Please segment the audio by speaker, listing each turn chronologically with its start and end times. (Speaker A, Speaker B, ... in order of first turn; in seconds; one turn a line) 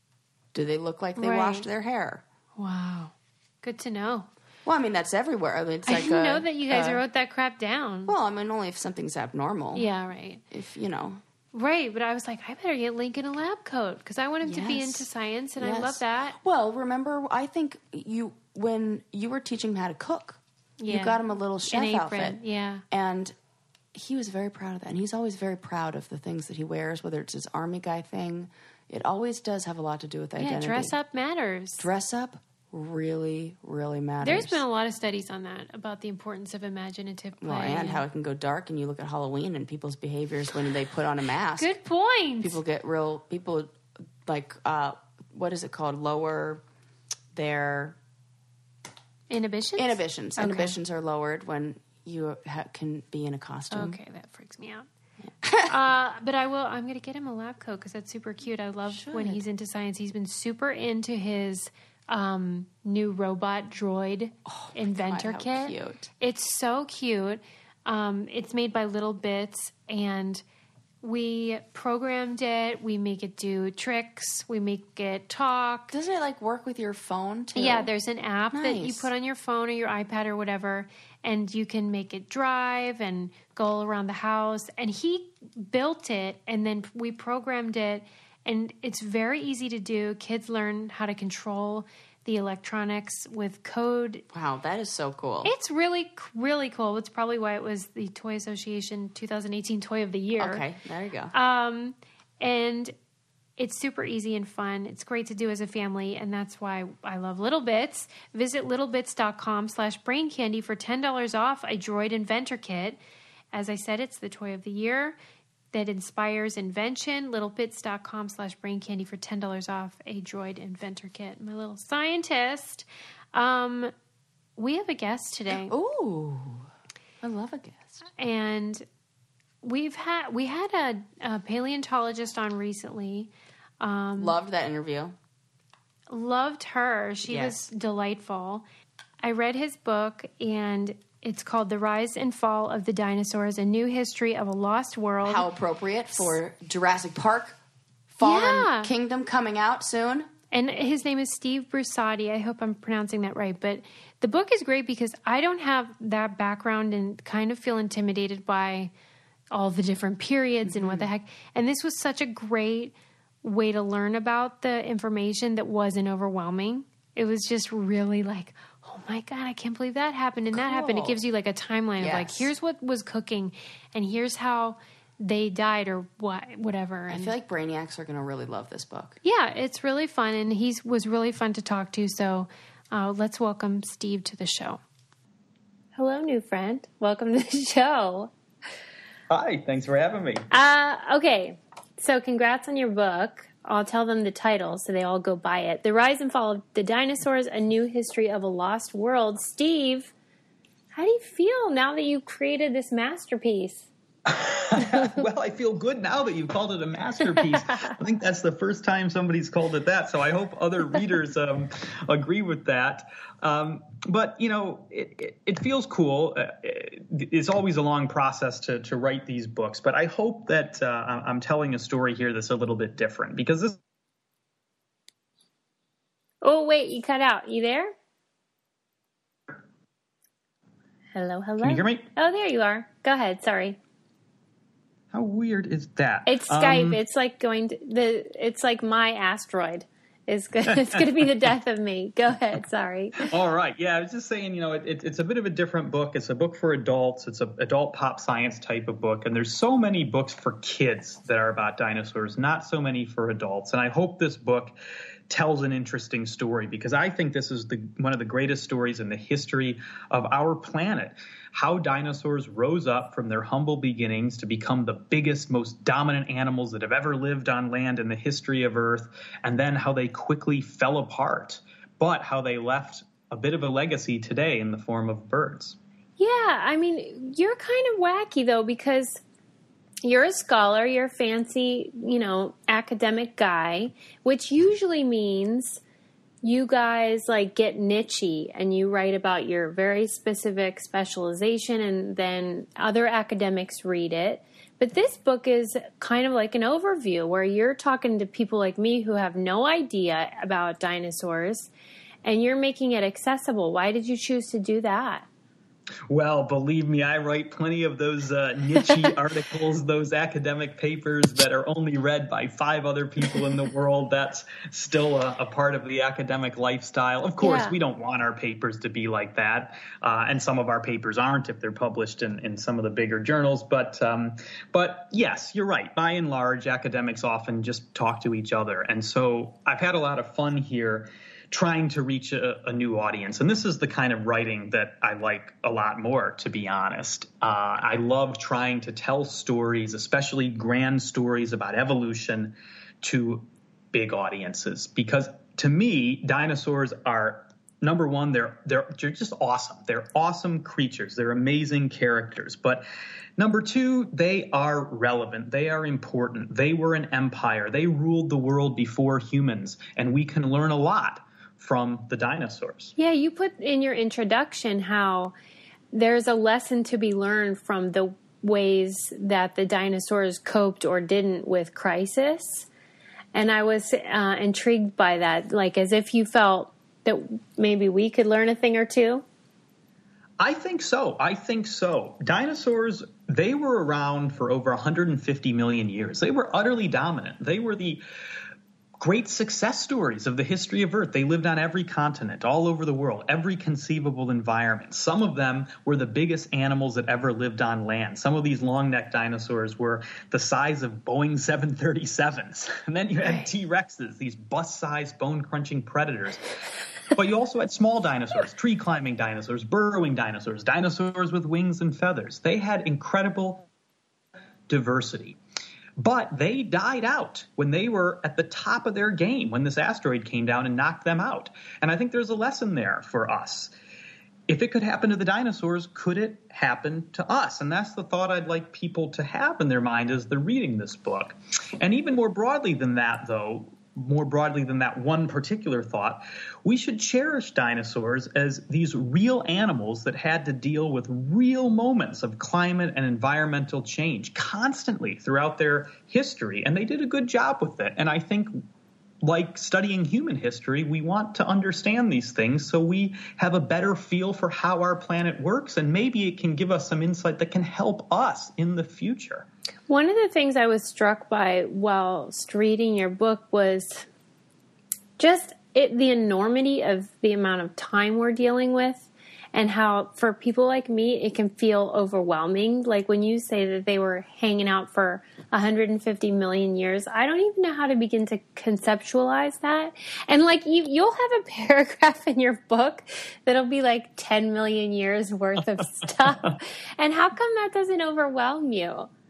Speaker A: 0.5-2.2
Speaker B: 1.2-1.6
Speaker B: 2.6-4.3
Speaker A: 4.6-7.0
Speaker B: 5.8-8.1
Speaker A: 8.1-9.9
Speaker B: 9.7-10.4
Speaker A: 10.5-11.2
Speaker B: 11.5-16.4
Speaker A: 14.4-22.4
Speaker B: 20.8-22.8
Speaker A: 22.9-23.3
Speaker A: 23.9-30.9
Speaker B: 30.4-31.9
Speaker A: 31.8-34.6
Speaker B: 34.2-38.0
Speaker A: 37.4-41.7
Speaker B: 41.6-42.6
Speaker A: 42.4-46.6
Speaker A: 47.3-48.0
Speaker B: 49.3-50.8
Speaker A: 49.8-54.0
Speaker B: 53.7-54.9
Speaker A: 55.2-55.7
Speaker B: 55.6-70.4
Speaker A: 58.9-59.4
Speaker A: 64.5-66.1
Speaker B: 71.0-76.0
Speaker A: 75.9-77.9
Speaker B: 77.5-94.2
Speaker A: 78.5-79.1
Speaker A: 94.3-95.5
Speaker B: 95.4-100.6
Speaker A: 100.4-101.3
Speaker B: 101.3-102.9
Speaker B: 103.6-113.0
Speaker B: 113.5-115.2
Speaker B: 115.7-123.9
Speaker B: 124.6-125.7
Speaker A: 125.5-126.7
Speaker A: 127.2-128.0
Speaker B: 128.2-128.8
Speaker B: 129.6-134.3
Speaker A: 134.2-135.2
Speaker B: 136.1-138.6
Speaker A: 137.2-137.6
Speaker B: 139.2-145.4
Speaker A: 145.2-147.6
Speaker A: 148.1-150.3
Speaker B: 148.2-148.9
Speaker B: 150.5-158.9
Speaker B: 159.5-177.3
Speaker A: 160.7-161.1
Speaker A: 170.5-171.2
Speaker A: 172.0-172.5
Speaker A: 177.1-179.2
Speaker B: 179.2-184.8
Speaker B: 185.9-188.3
Speaker C: 189.3-190.5
Speaker B: 190.5-200.1
Speaker B: 200.9-203.9
Speaker C: 204.2-223.8
Speaker B: 204.8-205.2
Speaker B: 226.4-227.9
Speaker B: 231.1-233.8
Speaker C: 231.6-232.1
Speaker C: 235.1-237.0
Speaker B: 236.3-243.3
Speaker C: 240.7-241.2
Speaker C: 243.2-254.8
Speaker C: 255.3-275.8
Speaker B: 276.2-279.2
Speaker B: 280.0-285.8
Speaker B: 286.4-301.7
Speaker B: 302.2-305.2
Speaker C: 306.1-352.8
Speaker B: 317.4-317.7
Speaker C: 353.4-362.9
Speaker B: 363.0-365.3
Speaker B: 365.9-372.7
Speaker B: 373.3-379.2
Speaker C: 380.4-388.0
Speaker C: 389.0-406.5
Speaker B: 403.2-403.5
Speaker C: 407.1-413.6
Speaker C: 414.7-415.4
Speaker C: 416.0-423.7
Speaker C: 424.5-448.6
Speaker C: 449.2-459.5
Speaker B: 459.9-464.1
Speaker B: 465.2-489.1